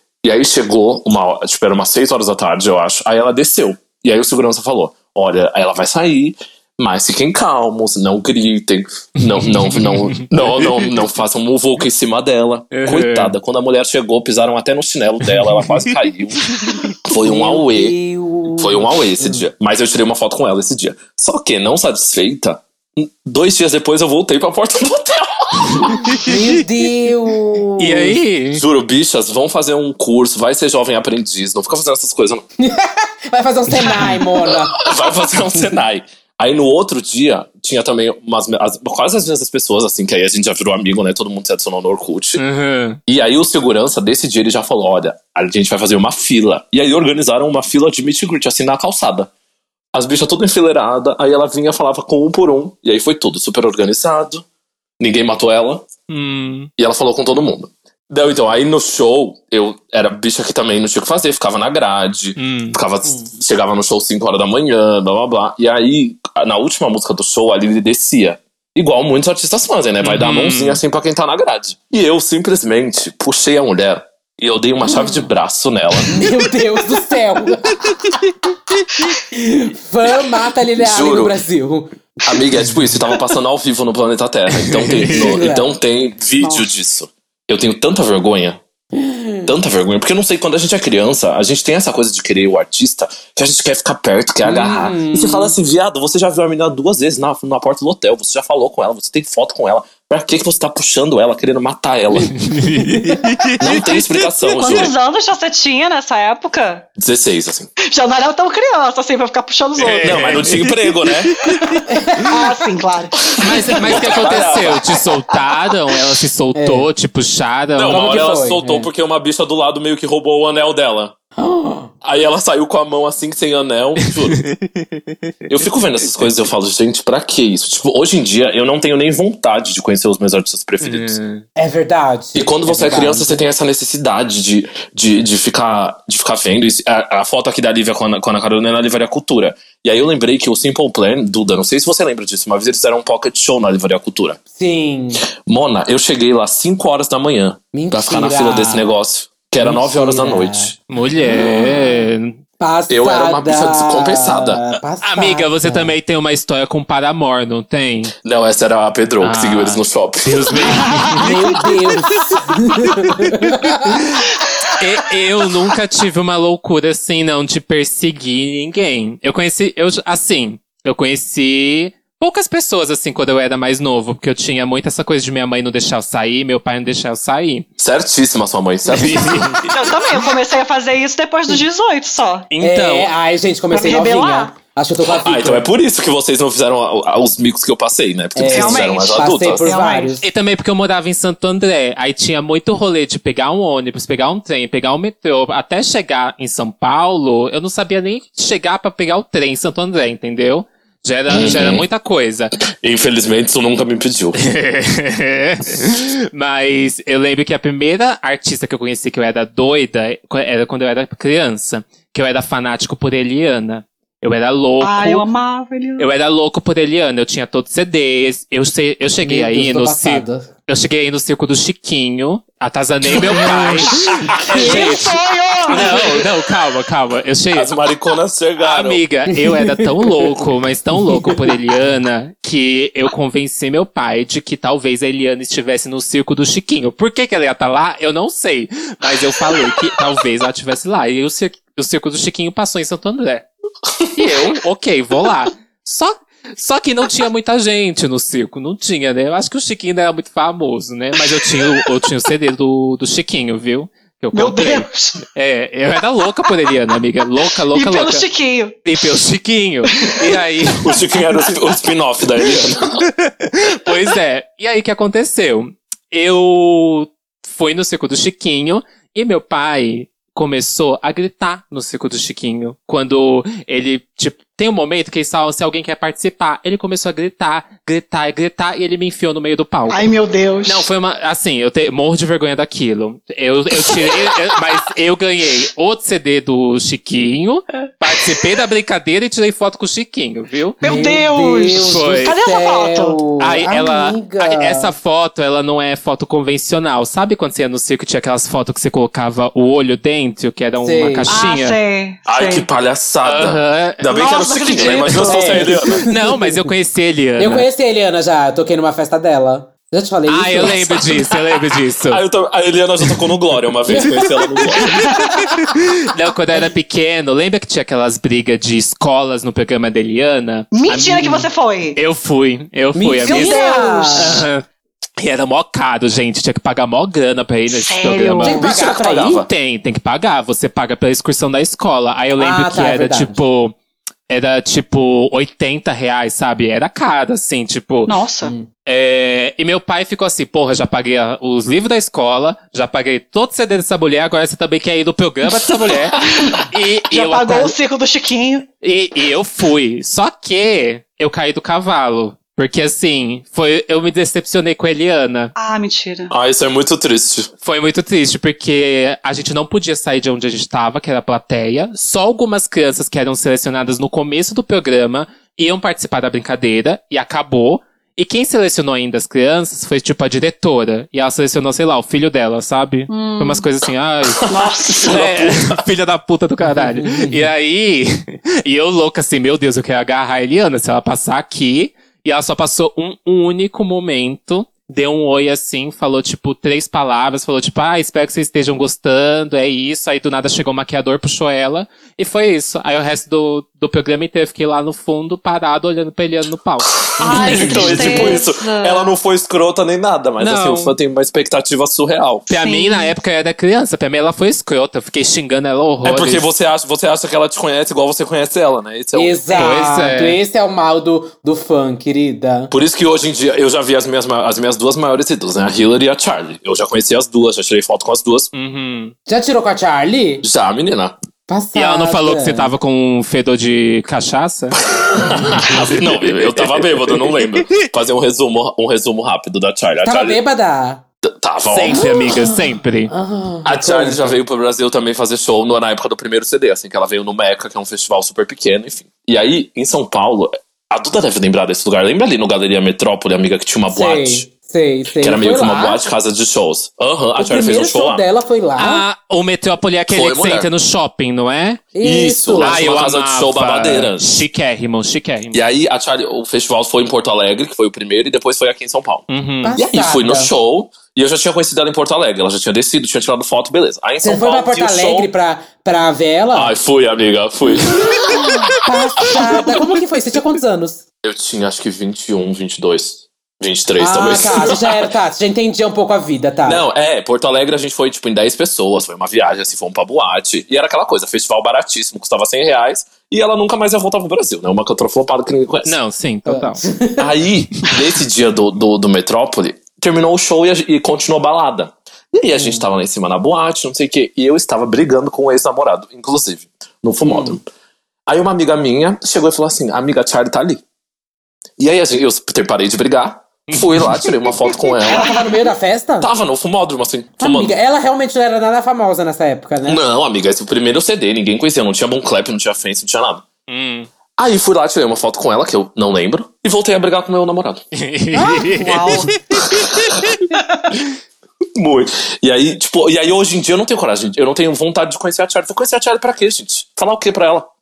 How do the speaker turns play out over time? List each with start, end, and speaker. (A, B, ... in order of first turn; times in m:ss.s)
0:00.2-0:18.0 A
0:09.3-0:11.0 B
0:12.7-0:13.3 B
0:15.4-0:15.9 B
0:16.4-0:16.9 B
0:17.2-0:19.4 C
0:18.6-0:26.0 A
0:25.9-0:26.5 B
0:26.2-0:28.2 C
0:27.8-0:28.6 B
0:28.5-0:32.4 A
0:32.6-0:35.1 C
0:33.8-0:34.2 B
0:34.4-0:42.4 A
0:42.4-0:43.0 B
0:43.1-0:49.3 A
0:49.9-0:54.4 A
0:55.0-0:55.9 A
0:56.1-0:56.7 B
0:56.8-1:16.2 A
1:02.4-1:02.8 B
1:03.0-1:03.3 C
1:10.0-1:10.8 B
1:14.9-1:15.2 C
1:16.1-1:18.2 C
1:17.8-1:18.2 B
1:18.8-1:19.1 B
1:19.3-1:22.4 C
1:20.8-1:21.4 A
1:22.2-1:28.6 A
1:24.5-1:25.3 B
1:25.1-1:25.7 C
1:26.4-1:26.7 D
1:29.0-1:29.5 C
1:29.4-1:42.4 A
1:34.4-1:35.5 C
1:42.3-1:44.3 B
1:43.6-1:44.9 A
1:44.5-1:46.8 D
1:47.0-1:47.7 A
1:47.9-1:50.4 D
1:49.8-1:52.3 B
1:50.0-1:51.4 A
1:51.5-1:54.8 D
1:51.9-1:52.4 C
1:53.3-1:55.0 A
1:53.4-1:58.2 B
1:56.5-1:56.8 C
1:57.7-2:01.1 A
1:57.9-1:58.9 C
2:01.4-2:01.9 C
2:02.0-2:04.4 A
2:04.3-2:05.5 B
2:05.5-2:11.2 A
2:10.8-2:11.4 B
2:11.6-2:13.4 C
2:12.4-2:24.4 A
2:24.5-2:25.2 C
2:25.4-2:32.0 A
2:27.7-2:28.9 C
2:29.6-2:30.7 C
2:30.9-2:32.4 B
2:32.6-2:35.9 C
2:32.9-2:34.6 A
2:35.0-2:38.1 B
2:38.2-2:40.9 A
2:39.2-2:57.7 B
2:41.1-2:44.0 C
2:44.3-2:44.8 D
2:57.8-2:59.7 A
2:58.9-2:59.7 B
2:59.7-3:02.5 D
3:02.5-3:03.1 B
3:02.6-3:05.7 C
3:03.7-3:04.5 D
3:05.0-3:09.7 A
3:08.3-3:10.3 C
3:08.5-3:10.2 D
3:10.2-3:22.6 B
3:21.3-3:21.8 A
3:22.8-3:24.4 A
3:24.4-3:35.2 B
3:34.8-3:36.1 D
3:36.0-3:45.1 B
3:39.2-3:40.5 C
3:43.8-3:44.8 A
3:44.4-3:46.2 D
3:44.5-3:44.8 C
3:45.7-3:47.7 B
3:45.7-3:46.1 A
3:47.5-3:49.0 A
3:48.6-4:03.4 B
3:49.4-3:49.7 C
4:04.1-4:18.2 B
4:11.2-4:11.9 D
4:14.3-4:15.2 D
4:17.7-4:18.8 D
4:18.8-4:21.5 B
4:19.9-4:20.2 D
4:20.8-4:23.0 A
4:23.0-4:40.1 B
4:39.9-4:40.9 D
4:40.6-4:50.8 B
4:43.7-4:44.6 D
4:50.8-4:53.2 D
4:50.8-4:54.9 C
4:51.7-4:52.4 B
4:53.4-5:01.8 B
5:00.8-5:01.4 C
5:01.3-5:02.7 D
5:02.2-5:06.1 A
5:03.2-5:07.6 B
5:04.1-5:05.7 D
5:04.9-5:06.6 C
5:07.4-5:11.1 C
5:10.3-5:12.2 B
5:10.8-5:11.4 A
5:12.0-5:15.1 A
5:13.9-5:14.2 C
5:14.8-5:15.4 D
5:15.1-5:15.7 C
5:15.6-5:24.6 B
5:20.7-5:22.0 D
5:22.9-5:24.4 C
5:23.2-5:24.4 D
5:25.2-5:28.7 B
5:27.7-5:28.7 D
5:28.4-5:29.4 C
5:28.5-5:29.5 A
5:29.4-5:33.7 B
5:32.4-5:33.4 C
5:34.3-5:38.2 B
5:38.1-5:38.5 D
5:38.8-5:47.7 B
5:46.4-5:48.6 D
5:48.8-5:55.5 B
5:55.6-5:56.3 D
5:56.3-5:57.5 A
5:57.6-6:38.4 B
6:13.1-6:13.6 D
6:14.4-6:15.8 A
6:14.5-6:15.3 D
6:16.9-6:17.4 C
6:37.0-6:42.5 A
6:37.2-6:39.1 D
6:40.4-6:41.0 B
6:42.5-6:46.4 B
6:42.5-6:43.1 D
6:46.0-6:49.6 A
6:49.1-6:52.7 C
6:49.5-6:50.4 B
6:52.7-6:58.5 A
6:58.5-6:59.1 B
6:59.3-7:00.4 C
7:00.4-7:01.2 A
7:01.5-7:02.7 C
7:01.8-7:04.8 B
7:05.1-7:10.4 A
7:05.2-7:05.7 C
7:05.4-7:07.8 B
7:10.0-7:11.0 C
7:11.2-7:12.3 A
7:11.7-7:13.1 B
7:12.0-7:12.6 C
7:13.1-7:14.4 C
7:13.6-7:24.4 A
7:23.9-7:26.0 C
7:25.2-7:28.2 A
7:27.4-7:29.0 C
7:28.8-7:31.8 B
7:30.1-7:30.7 A
7:31.9-7:32.8 C
7:32.0-7:34.2 A
7:32.6-7:35.7 B
7:35.5-7:45.3 A
7:39.3-7:39.8 B
7:39.6-7:40.5 C
7:44.2-7:46.7 C
7:46.5-7:48.5 A
7:48.1-7:51.0 C
7:48.2-7:48.6 B
7:51.2-7:55.0 A
7:54.0-7:56.8 C
7:56.6-8:06.0 A
8:05.8-8:06.8 B
8:06.5-8:07.3 C
8:07.2-8:17.6 A
8:12.5-8:12.8 C
8:17.2-8:17.6 C
8:18.3-8:20.8 A
8:21.8-8:25.3 A
8:23.7-8:24.6 B
8:25.1-8:25.6 D
8:25.1-8:26.3 C
8:26.2-8:27.7 A
8:27.4-8:30.0 C
8:29.8-8:33.4 A
8:33.7-8:34.1 B
8:34.4-8:37.8 A
8:38.0-8:40.3 B
8:38.3-8:39.3 C
8:38.6-8:39.3 D
8:39.6-8:40.1 A
8:40.5-8:40.8 D
8:41.7-8:47.7 A